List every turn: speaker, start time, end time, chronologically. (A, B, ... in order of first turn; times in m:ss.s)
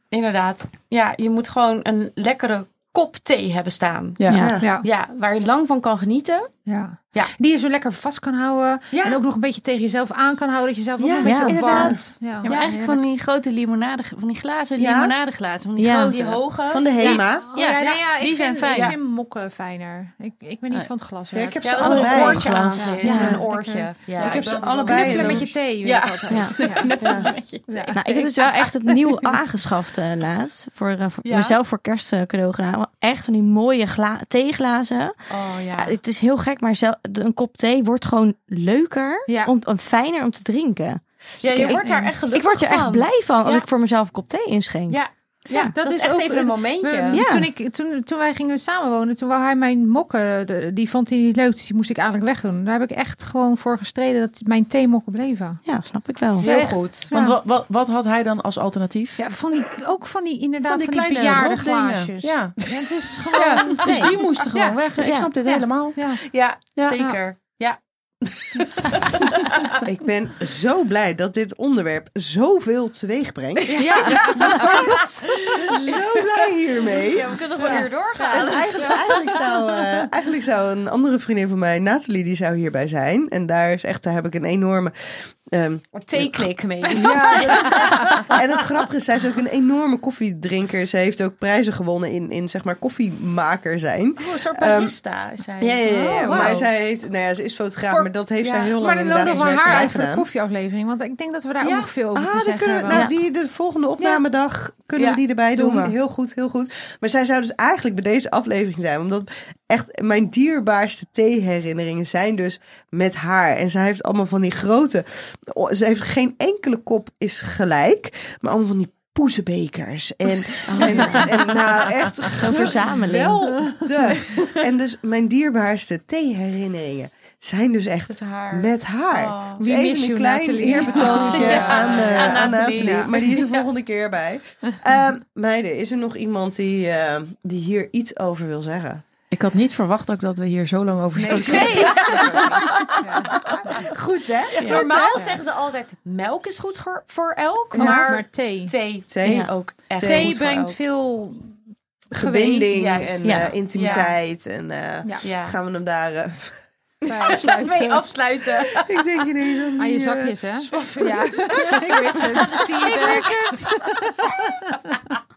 0:00.1-0:06.5 A
0:04.2-0:04.5 B
0:04.3-0:04.7 C
0:04.6-0:04.8 D
0:06.6-0:13.0 D
0:08.9-0:09.2 A
0:11.0-0:12.7 A
0:11.2-0:12.0 E
0:12.4-0:19.0 F
0:14.8-0:15.2 C
0:15.8-0:16.1 E
0:15.9-0:18.1 A
0:16.7-0:17.5 C
0:17.4-0:26.9 D
0:18.7-0:19.0 A
0:21.3-0:23.4 C
0:21.6-0:24.5 A
0:21.6-0:23.0 F
0:23.0-0:23.4 E
0:24.2-0:25.6 C
0:24.2-0:25.5 B
0:25.6-0:27.3 A
0:26.5-0:28.2 F
0:27.0-0:27.3 C
0:27.6-0:28.0 D
0:27.9-0:35.2 E
0:31.2-0:31.6 A
0:35.3-0:36.0 A
0:35.8-0:45.0 E
0:39.3-0:39.5 D
0:41.4-0:43.6 A
0:41.5-0:42.1 D
0:44.9-0:47.2 A
0:45.6-0:55.6 D
0:47.1-0:47.5 E
0:55.6-0:56.5 E
0:56.4-0:57.1 A
0:56.4-0:57.4 D
0:57.1-0:59.2 B
0:59.2-1:04.8 D
1:00.6-1:02.7 B
1:03.3-1:06.1 B
1:05.0-1:05.3 E
1:05.4-1:06.2 D
1:06.3-1:09.8 A
1:09.8-1:35.0 C
1:13.6-1:19.6 A
1:14.2-1:15.0 B
1:25.9-1:28.4 A
1:34.2-1:36.7 A
1:35.6-1:40.3 C
1:35.9-1:36.6 D
1:37.9-1:39.9 A
1:38.8-1:43.1 D
1:41.6-1:41.9 A
1:42.1-2:19.0 C
1:45.5-1:45.9 D
2:00.7-2:01.3 E
2:00.9-2:01.2 A
2:02.3-2:03.4 E
2:08.1-2:09.6 A
2:09.6-2:13.1 D
2:10.6-2:13.7 A
2:19.3-2:22.6 B
2:21.1-2:23.9 D
2:21.4-2:22.8 A
2:23.4-2:24.8 C
2:24.5-2:30.8 A
2:24.6-2:25.4 D
2:27.7-2:28.7 D
2:29.1-2:30.4 C
2:29.2-2:29.5 E
2:29.9-2:33.0 D
2:32.1-2:37.3 C
2:32.7-2:34.1 A
2:33.2-2:33.5 E
2:33.8-2:34.1 D
2:35.2-2:35.6 A
2:37.1-2:38.0 D
2:37.3-2:38.9 A
2:38.6-2:43.3 C
2:39.8-2:45.1 D
2:42.8-2:43.7 A